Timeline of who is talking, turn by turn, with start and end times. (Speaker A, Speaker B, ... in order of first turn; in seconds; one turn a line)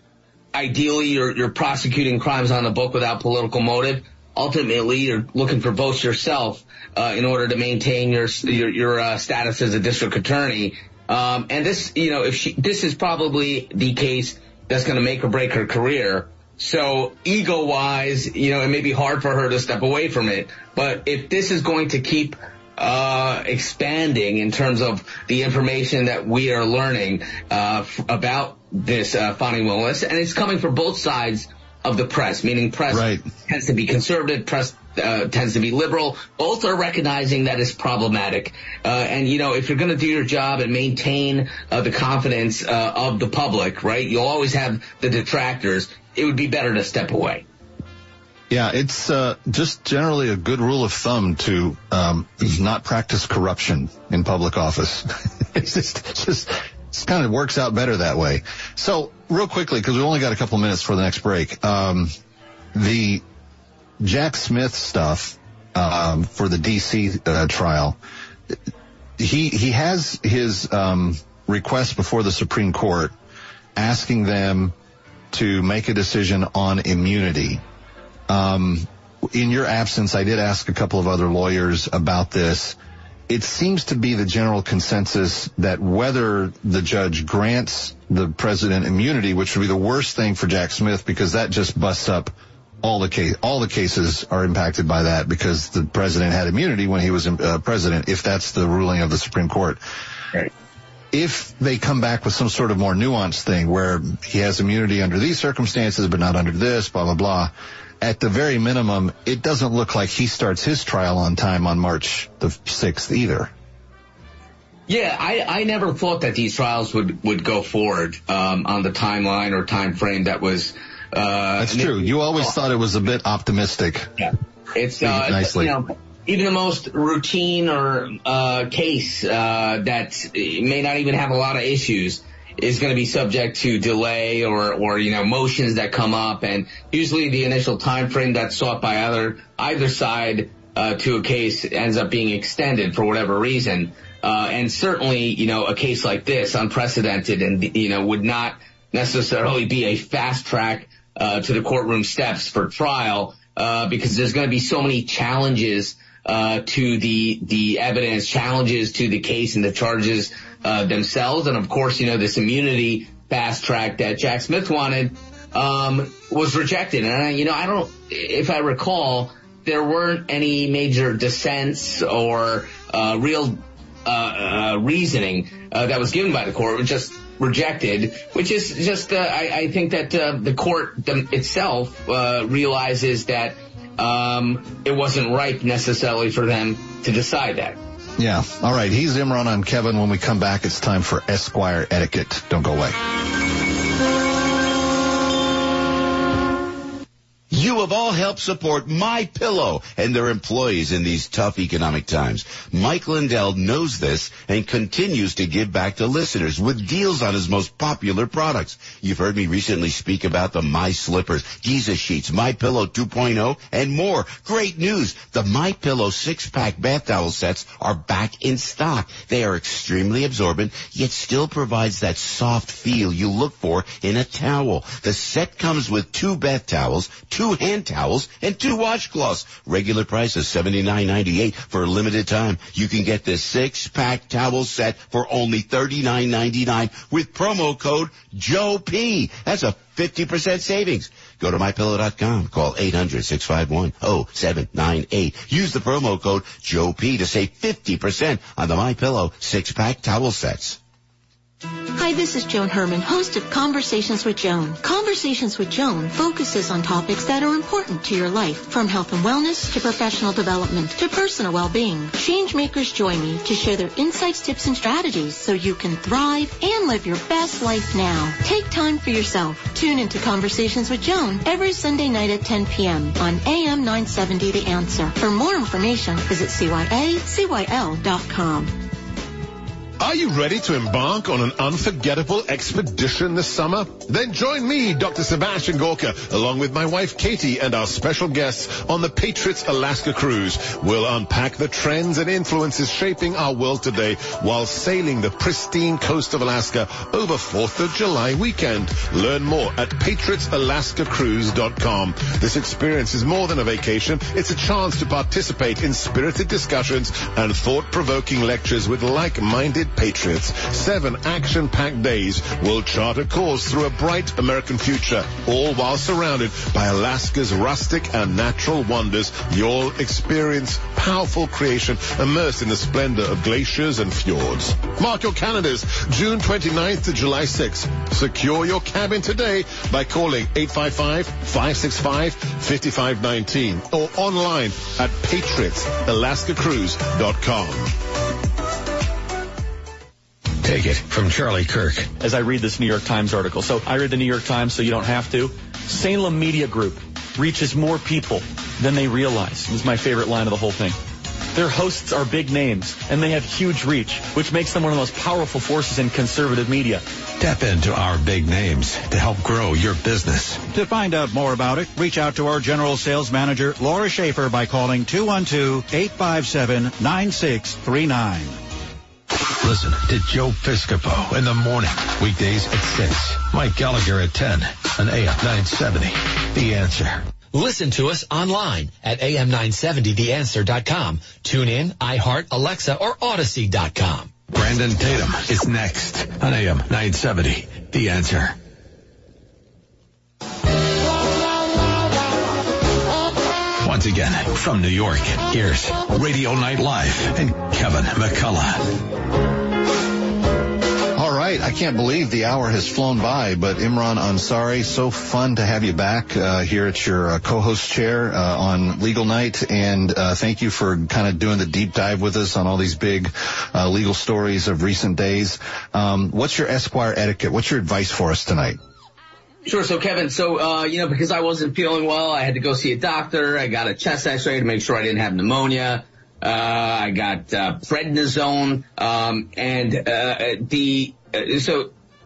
Speaker A: 0.5-47.5
Speaker B: 32.9-33.3
Speaker B: 48.5-62.1
Speaker B: 62.7-63.2
Speaker B: 64.0-68.0
Speaker B: 69.2-73.1
Speaker B: 73.8-74.7
Speaker B: 75.3-77.6
Speaker B: 78.3-82.8
Speaker B: 83.3-99.8
Speaker B: 101.1-113.5
Speaker A: 114.9-122.5
Speaker B: 121.6-124.1
Speaker A: 124.2-187.8
Speaker B: 125.0-125.7
Speaker B: 188.2-193.0
Speaker C: 197.5-250.8
Speaker D: 251.9-278.8
Speaker E: 280.0-337.9
Speaker F: 340.6-342.1
Speaker G: 342.2-351.0
Speaker G: 351.5-357.1
Speaker F: 357.4-360.6
Speaker H: 360.7-368.6
Speaker F: 369.6-377.3
Speaker I: 377.5-384.3
Speaker F: 384.5-388.6
Speaker F: 393.8-398.9
Speaker B: 401.1-418.8
Speaker A: 419.7-431.9